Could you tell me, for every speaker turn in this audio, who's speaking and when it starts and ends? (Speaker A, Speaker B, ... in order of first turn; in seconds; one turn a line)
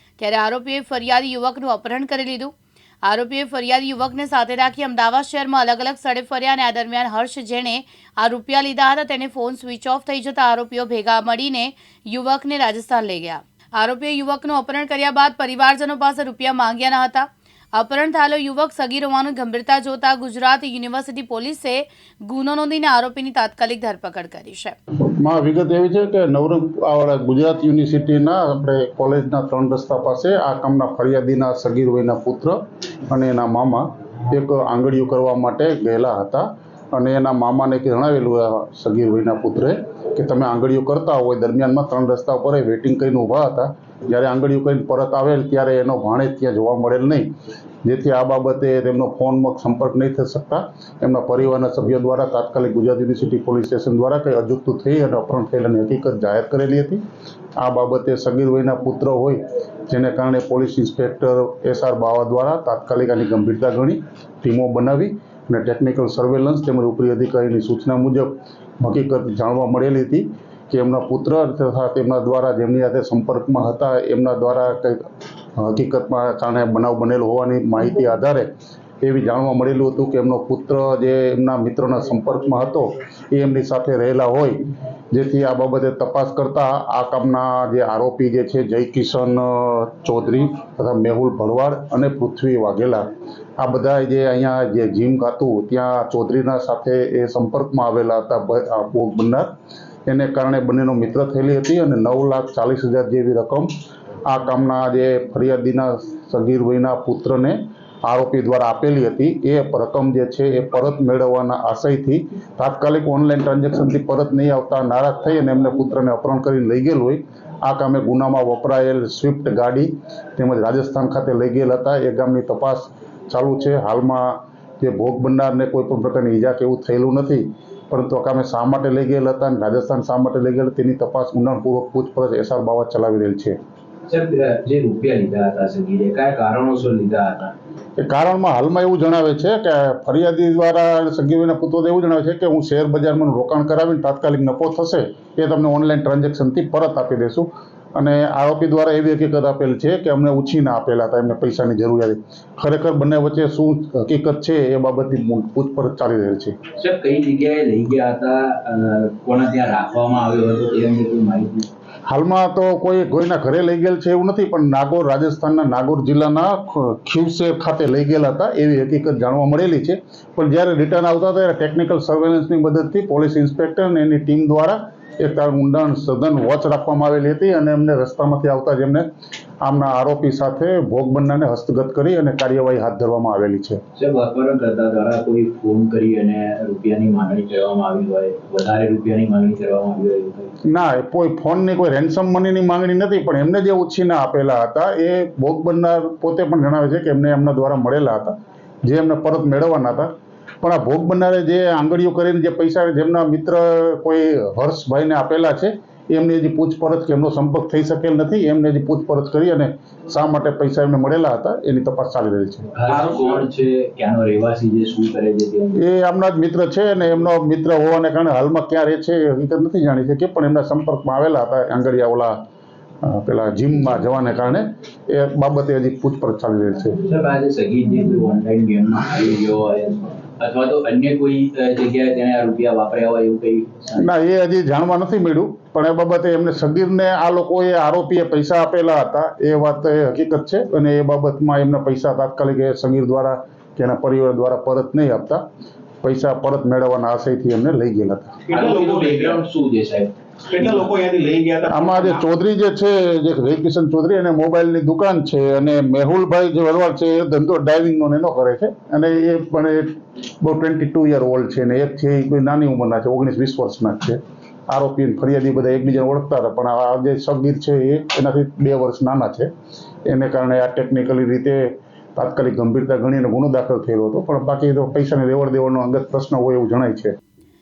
Speaker A: 0.2-2.5
Speaker A: 3.0-24.8
Speaker B: 25.2-47.3
Speaker B: 47.8-57.0
Speaker B: 57.6-99.5
Speaker B: 100.1-103.7
Speaker B: 104.3-133.6
Speaker C: 134.1-137.5
Speaker B: 138.0-156.6
Speaker C: 156.8-161.7
Speaker B: 162.1-179.1
Speaker B: 179.6-183.8
Speaker C: 184.0-190.5
Speaker B: 190.7-200.1
Speaker B: 200.6-212.7
Speaker C: 212.8-215.8
Speaker D: 212.9-213.5
Speaker B: 215.8-222.4
Speaker B: 223.0-227.0
Speaker C: 227.1-234.1
Speaker B: 234.0-245.4
Speaker B: 246.0-248.4
Speaker D: 248.4-249.4
Speaker C: 248.5-250.9
Speaker D: 250.5-252.2
Speaker B: 251.7-269.5
Speaker B: 270.1-277.1